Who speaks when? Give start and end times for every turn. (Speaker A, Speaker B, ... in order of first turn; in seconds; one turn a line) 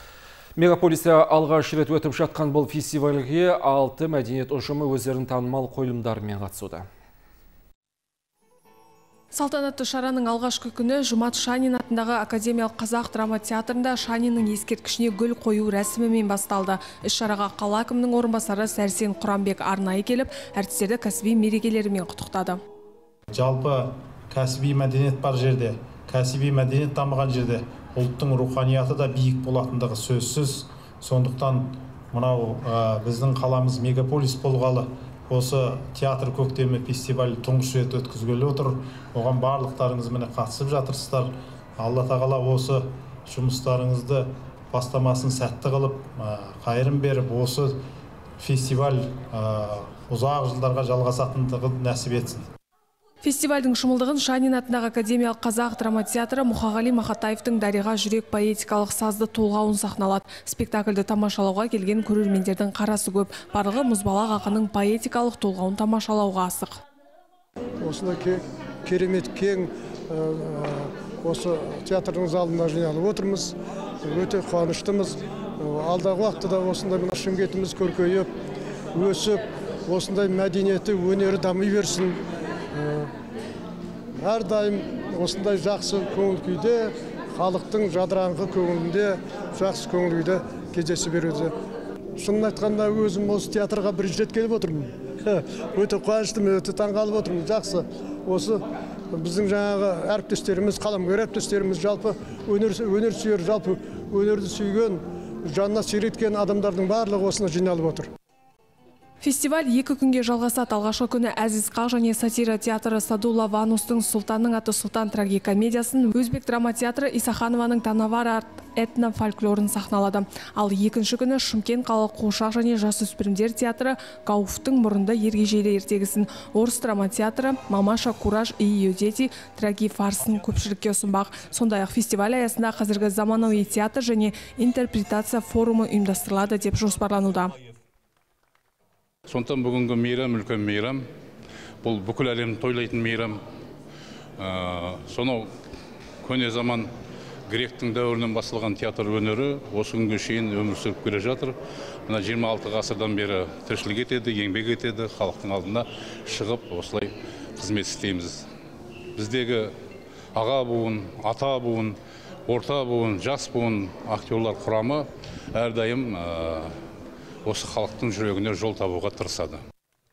Speaker A: 0.6-6.9
Speaker B: 9.3-22.6
Speaker C: 23.3-47.8
Speaker C: 48.4-52.5
Speaker B: 53.2-66.8
Speaker D: 67.8-78.3
Speaker D: 78.9-82.2
Speaker D: 82.7-83.1
Speaker D: 84.2-91.5
Speaker D: 92.2-108.1
Speaker B: 109.2-137.6
Speaker E: 139.3-141.0
Speaker E: 141.8-143.4
Speaker E: 144.4-145.5
Speaker E: 146.2-146.9
Speaker E: 147.5-158.4
Speaker E: 159.2-159.7
Speaker E: 160.3-166.7
Speaker E: 167.4-169.6